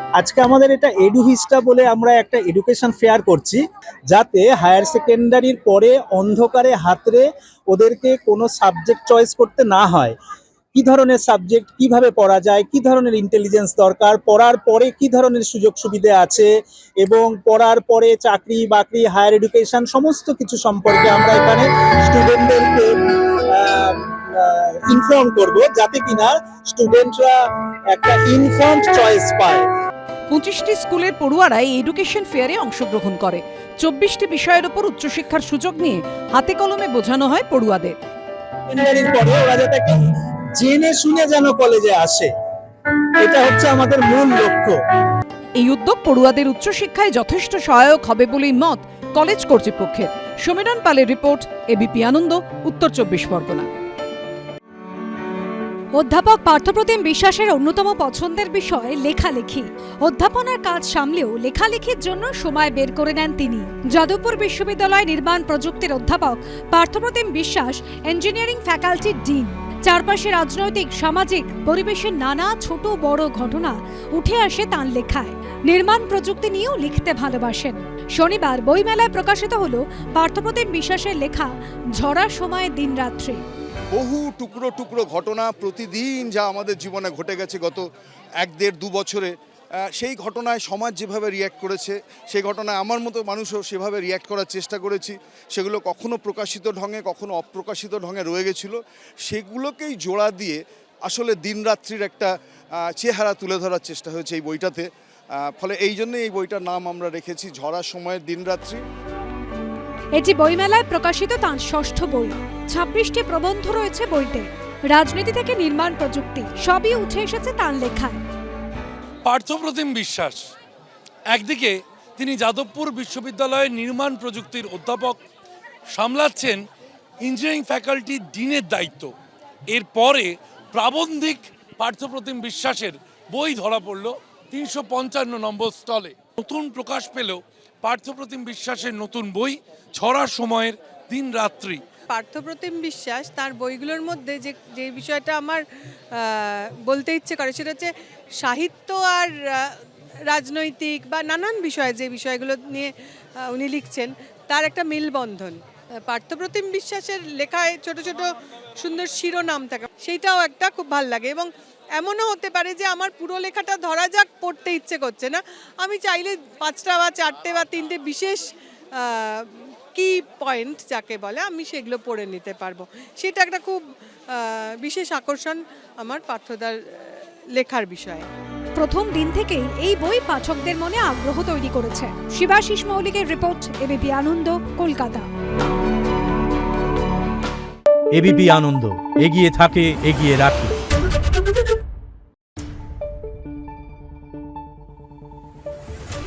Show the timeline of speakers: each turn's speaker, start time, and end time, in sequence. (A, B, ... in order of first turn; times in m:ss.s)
0:00.2-0:03.6 A
0:04.1-0:10.1 A
0:10.7-0:16.5 A
0:17.0-0:27.4 A
0:27.9-0:29.6 A
0:30.3-0:38.0 B
0:38.7-0:42.3 A
0:43.2-0:44.8 A
0:45.6-0:53.7 B
0:56.0-1:23.4 C
1:23.9-1:27.8 D
1:28.4-1:29.3 D
1:30.0-1:38.8 D
1:39.3-1:42.3 D
1:43.0-1:44.9 D
1:45.4-1:48.8 D
1:50.2-1:58.2 C
1:59.2-2:00.5 E
2:01.3-2:05.2 E
2:05.9-2:06.6 E
2:07.2-2:09.1 E
2:09.7-2:21.8 E
2:22.1-2:58.3 F
2:58.8-3:05.2 C
3:08.2-3:10.7 G